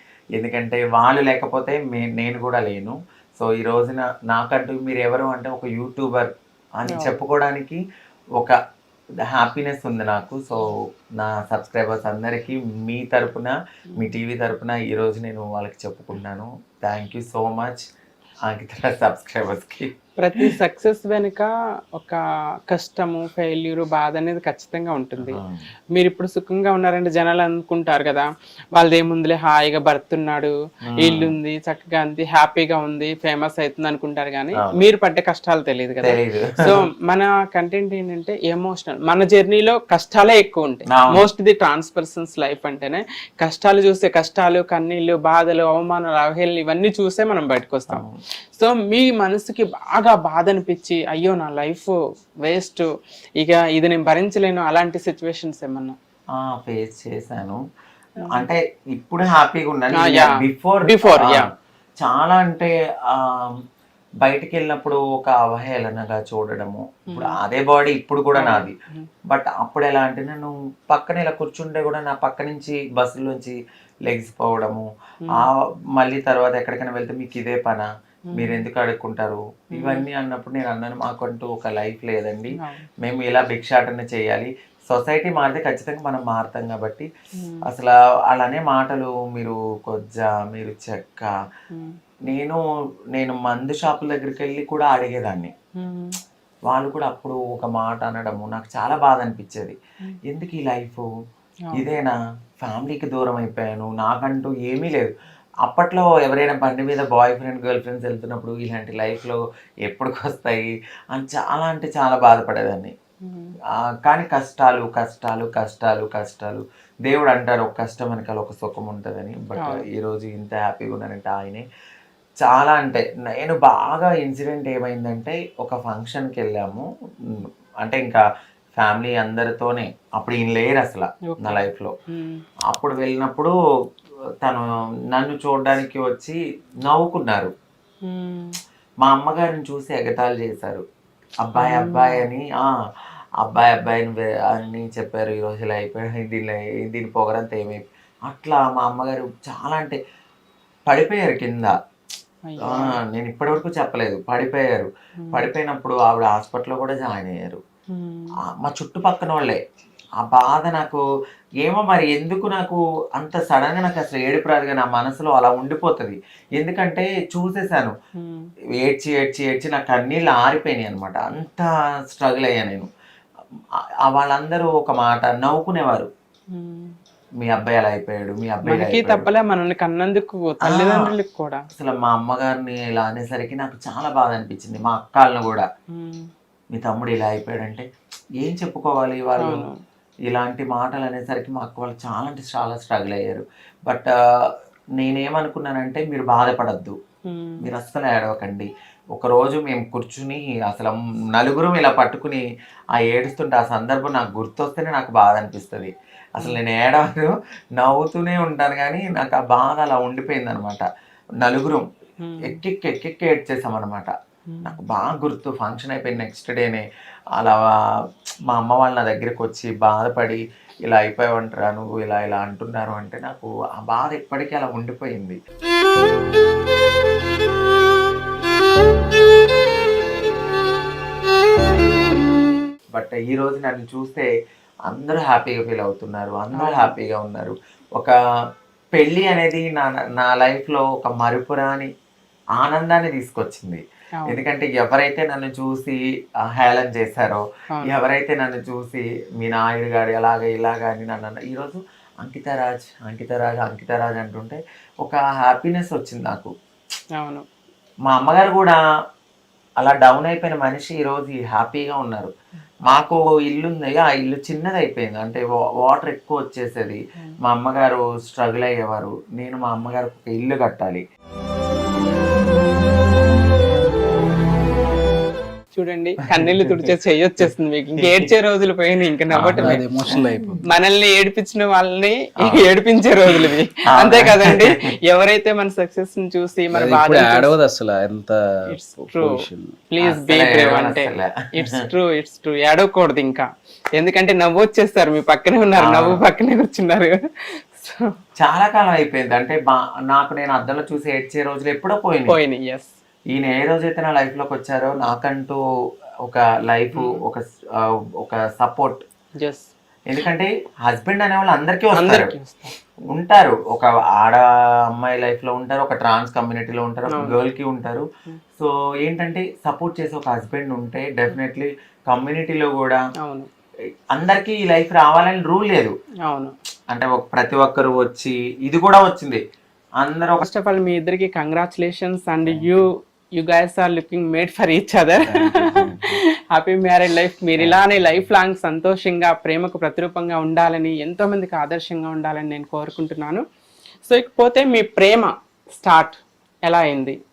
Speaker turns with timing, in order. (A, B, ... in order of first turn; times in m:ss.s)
0:00.4-0:07.8 A
0:06.9-0:07.1 B
0:09.3-0:17.8 A
0:18.4-0:20.5 A
0:20.2-0:25.4 B
0:25.2-0:25.7 A
0:25.9-0:52.8 B
0:30.9-0:31.4 A
0:36.0-0:36.8 A
0:40.9-0:41.2 A
0:47.9-0:48.2 A
0:53.4-0:55.9 B
0:56.4-0:57.6 A
0:58.2-0:58.5 B
0:58.2-1:01.5 A
1:00.0-1:01.5 B
1:02.0-1:03.6 A
1:04.2-1:08.7 A
1:07.1-1:07.4 B
1:08.3-1:09.1 B
1:09.3-1:27.1 A
1:18.3-1:18.6 B
1:19.8-1:20.0 B
1:22.6-1:22.8 B
1:27.4-1:27.6 B
1:27.6-1:31.3 A
1:32.3-1:32.6 A
1:33.1-1:35.5 A
1:35.8-1:36.2 B
1:36.7-1:41.1 A
1:41.7-1:45.1 A
1:45.6-1:52.9 A
1:53.2-1:53.5 B
1:53.8-2:01.6 A
1:59.6-1:59.8 B
2:02.4-2:06.8 A
2:07.4-2:08.2 A
2:08.8-2:11.9 A
2:11.3-2:12.4 B
2:12.7-2:13.5 A
2:14.4-2:17.5 A
2:18.0-2:18.6 B
2:19.0-2:20.8 A
2:21.4-2:22.7 A
2:21.6-2:22.2 B
2:23.4-2:30.0 A
2:30.9-2:31.7 A
2:32.4-2:33.0 B
2:32.6-2:37.6 A
2:35.2-2:35.5 B
2:37.9-2:38.3 B
2:38.5-2:39.6 A
2:40.2-2:41.0 A
2:41.6-2:47.9 A
2:48.2-2:48.5 B
2:48.8-2:52.9 A
2:54.0-2:56.1 A
2:56.5-2:57.0 B
2:57.4-2:59.3 A
2:58.6-3:01.6 B
3:00.6-3:01.1 A
3:01.7-3:05.7 A
3:05.9-3:06.3 B
3:06.7-3:07.9 A
3:08.4-3:09.6 A
3:09.4-3:09.8 B
3:10.3-3:17.0 A
3:17.2-3:17.6 B
3:17.6-3:30.8 A
3:31.4-3:31.8 A
3:32.2-3:32.6 B
3:32.4-3:34.1 A
3:34.5-3:34.8 B
3:34.6-3:36.8 A
3:37.4-3:37.9 A
3:38.5-3:45.4 A
3:52.9-3:54.3 A
3:54.9-3:58.1 A
3:56.6-3:56.9 B
3:58.9-4:01.9 A
4:02.6-4:16.5 A
4:17.1-4:17.4 B
4:18.1-4:18.8 A
4:19.8-4:22.3 A
4:22.9-4:31.0 A
4:35.7-4:47.5 B
4:36.3-4:36.9 A
4:38.0-4:38.3 A
4:39.3-4:40.6 A
4:39.6-4:40.6 C
4:42.4-4:42.7 A
4:43.3-4:44.8 A
4:46.7-4:49.8 C
4:48.7-4:49.4 B
4:49.9-4:57.2 B
4:50.0-4:51.8 A
4:55.8-4:56.2 A
4:57.7-4:58.1 B
4:58.4-5:02.4 A
5:02.3-5:02.9 B
5:03.3-5:05.6 A
5:06.2-5:09.0 A
5:09.4-5:09.7 B
5:10.1-5:12.3 A
5:11.9-5:12.7 B
5:13.1-5:14.4 A
5:14.9-5:18.0 A
5:17.1-5:17.4 B
5:18.6-5:23.0 A
5:23.2-5:23.5 B
5:24.1-5:25.9 A
5:26.2-5:26.5 B
5:26.9-5:29.4 A
5:30.0-5:30.5 A
5:30.4-5:43.4 B
5:32.4-5:32.8 A
5:35.2-5:36.2 A
5:37.6-5:38.2 A
5:44.0-5:47.2 B